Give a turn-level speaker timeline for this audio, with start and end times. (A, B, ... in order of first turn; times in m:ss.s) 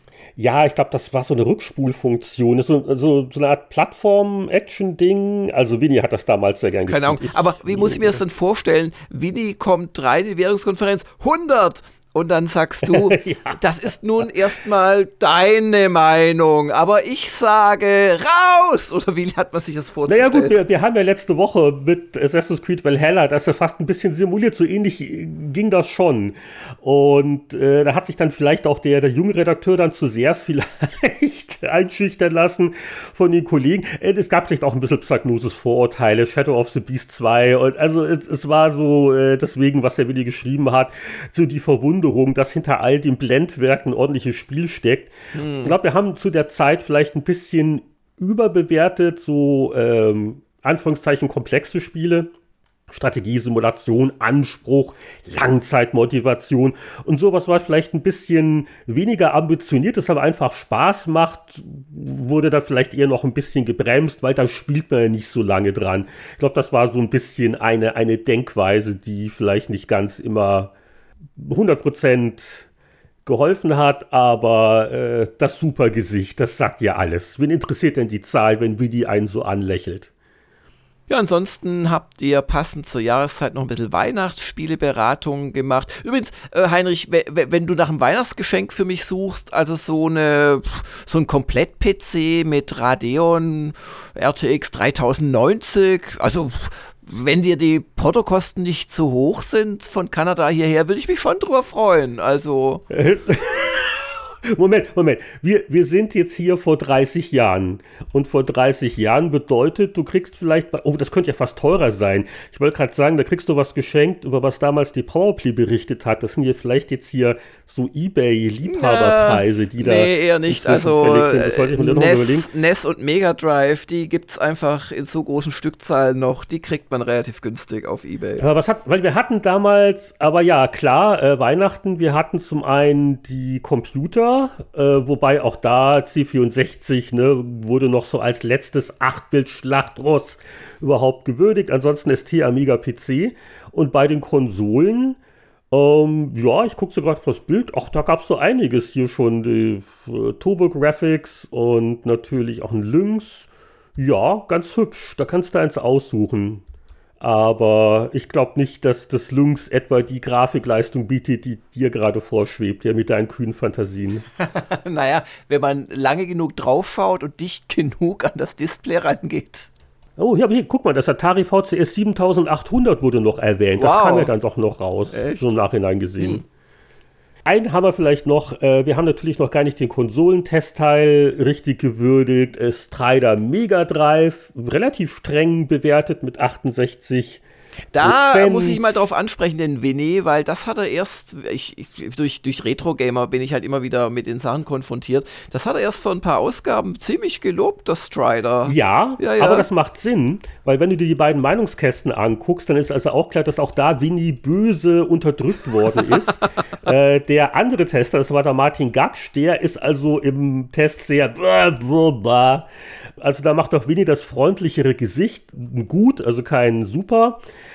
0:00.4-0:08.2 A
0:06.9-0:20.6 B
0:12.8-0:13.6 A
0:20.1-0:52.3 A
0:45.3-0:45.7 B
0:52.9-1:10.7 A
1:11.4-1:12.7 A
1:13.2-1:20.1 A
1:21.1-1:42.8 B
1:42.9-2:02.5 A
1:58.6-2:08.4 B
2:08.4-2:25.2 A
2:25.7-2:36.6 A
2:37.2-2:44.2 A
2:44.4-2:49.7 B
2:50.2-2:56.4 A
2:53.8-2:54.3 B
2:55.1-2:55.6 B
2:56.2-2:56.4 B
2:57.4-3:07.4 A
3:07.9-3:19.7 B
3:08.0-3:09.1 A
3:18.6-3:32.7 A
3:33.2-3:37.4 A